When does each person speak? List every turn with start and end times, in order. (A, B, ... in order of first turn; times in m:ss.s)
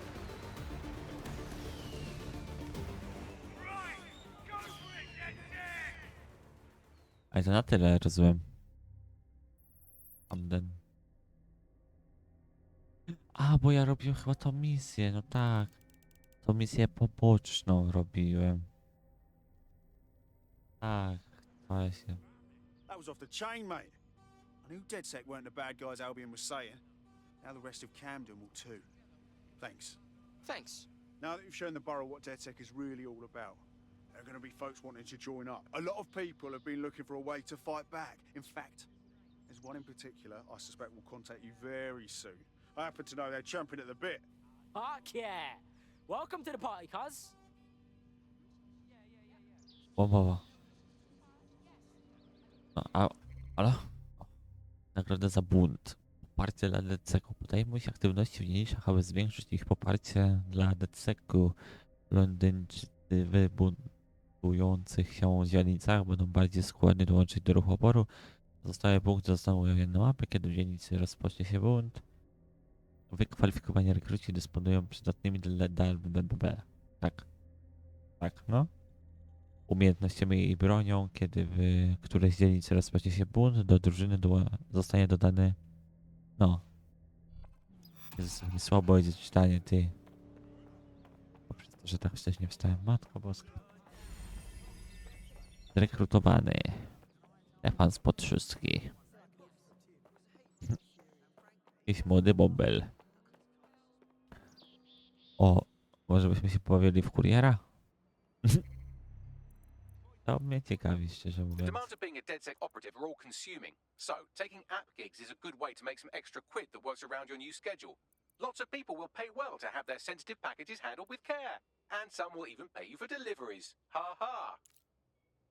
0:07.3-0:08.5 A
0:10.3-0:10.8 A
0:13.3-0:15.7 A
0:16.4-0:18.7 A
0:20.8-0:22.2 A
0:22.9-0:24.0 B
0:24.6-0:26.8 B
0:27.4-0:28.8 B
0:29.6-0:30.0 B
0:30.4-0:30.9 C
0:31.2-0:38.9 B
0:39.5-0:44.3 B
0:44.7-0:47.3 C
0:50.0-0:50.4 A
0:52.7-0:53.9 A
0:54.9-1:01.5 A
1:02.1-1:03.9 A
1:04.4-1:08.1 A
1:08.6-1:12.0 A
1:13.1-1:17.2 A
1:18.2-1:18.7 A
1:19.7-1:25.6 A
1:26.4-1:26.6 A
1:28.2-1:29.9 A
1:31.5-1:33.6 A
1:35.7-1:36.9 A
1:37.6-1:38.9 A
1:41.8-1:42.9 A
1:45.4-1:47.6 A
1:50.2-1:51.8 A
1:51.6-2:04.6 D